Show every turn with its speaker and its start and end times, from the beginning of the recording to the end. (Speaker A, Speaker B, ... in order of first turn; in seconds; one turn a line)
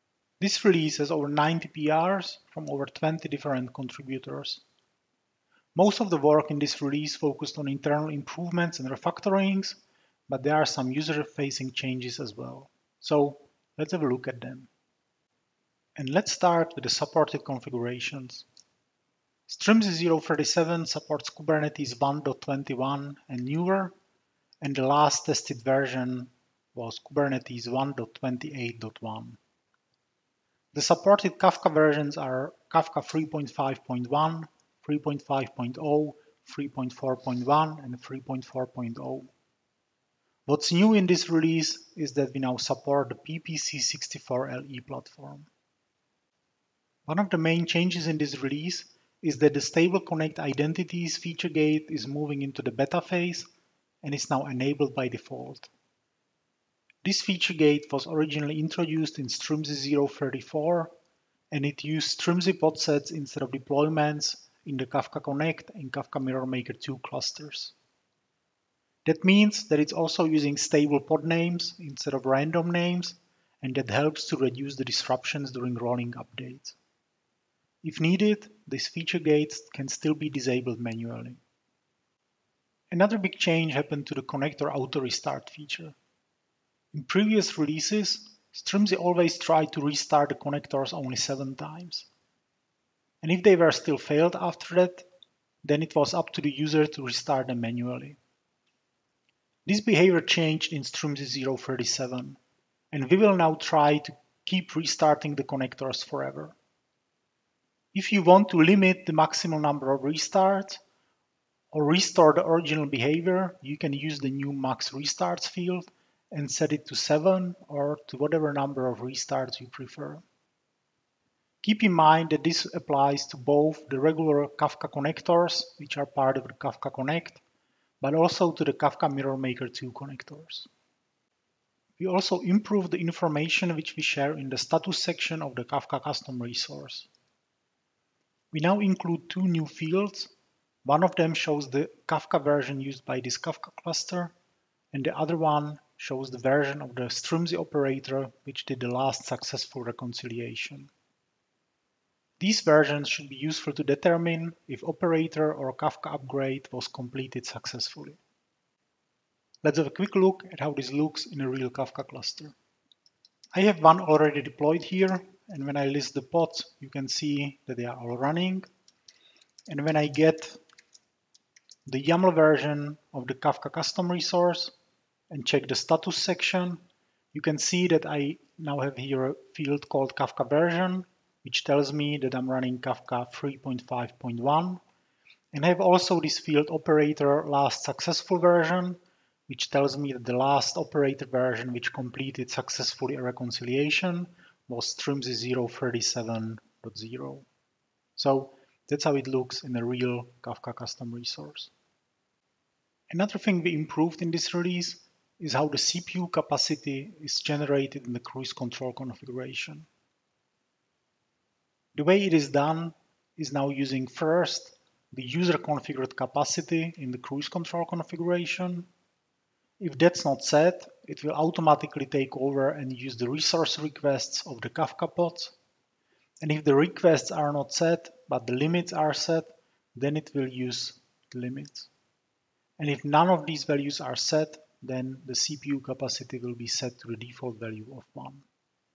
Speaker A: 0.4-4.6
Speaker A: 5.7-14.7
Speaker A: 16.0-18.4
Speaker A: 19.5-23.9
Speaker A: 24.6-29.4
Speaker A: 30.7-39.3
Speaker A: 40.5-45.5
Speaker A: 47.0-53.5
Speaker A: 54.0-55.7
Speaker A: 57.0-60.9
Speaker A: 61.5-67.7
Speaker A: 69.1-76.8
Speaker A: 77.8-81.4
Speaker A: 82.9-86.0
Speaker A: 86.9-92.1
Speaker A: 93.2-95.1
Speaker A: 95.6-98.2
Speaker A: 99.7-102.4
Speaker A: 102.9-106.5
Speaker A: 107.9-110.8
Speaker A: 111.7-120.2
Speaker A: 121.6-127.4
Speaker A: 128.0-130.7
Speaker A: 132.0-137.1
Speaker A: 138.5-140.3
Speaker A: 140.8-144.3
Speaker A: 144.9-150.9
Speaker A: 152.4-158.2
Speaker A: 159.6-162.5
Speaker A: 163.5-168.7
Speaker A: 169.7-170.6
Speaker A: 171.8-174.7
Speaker A: 175.3-176.8
Speaker A: 177.3-184.8
Speaker A: 185.5-197.4
Speaker A: 198.2-201.7
Speaker A: 203.1-209.9
Speaker A: 211.9-218.9
Speaker A: 219.8-225.5
Speaker A: 226.4-231.9
Speaker A: 232.8-238.4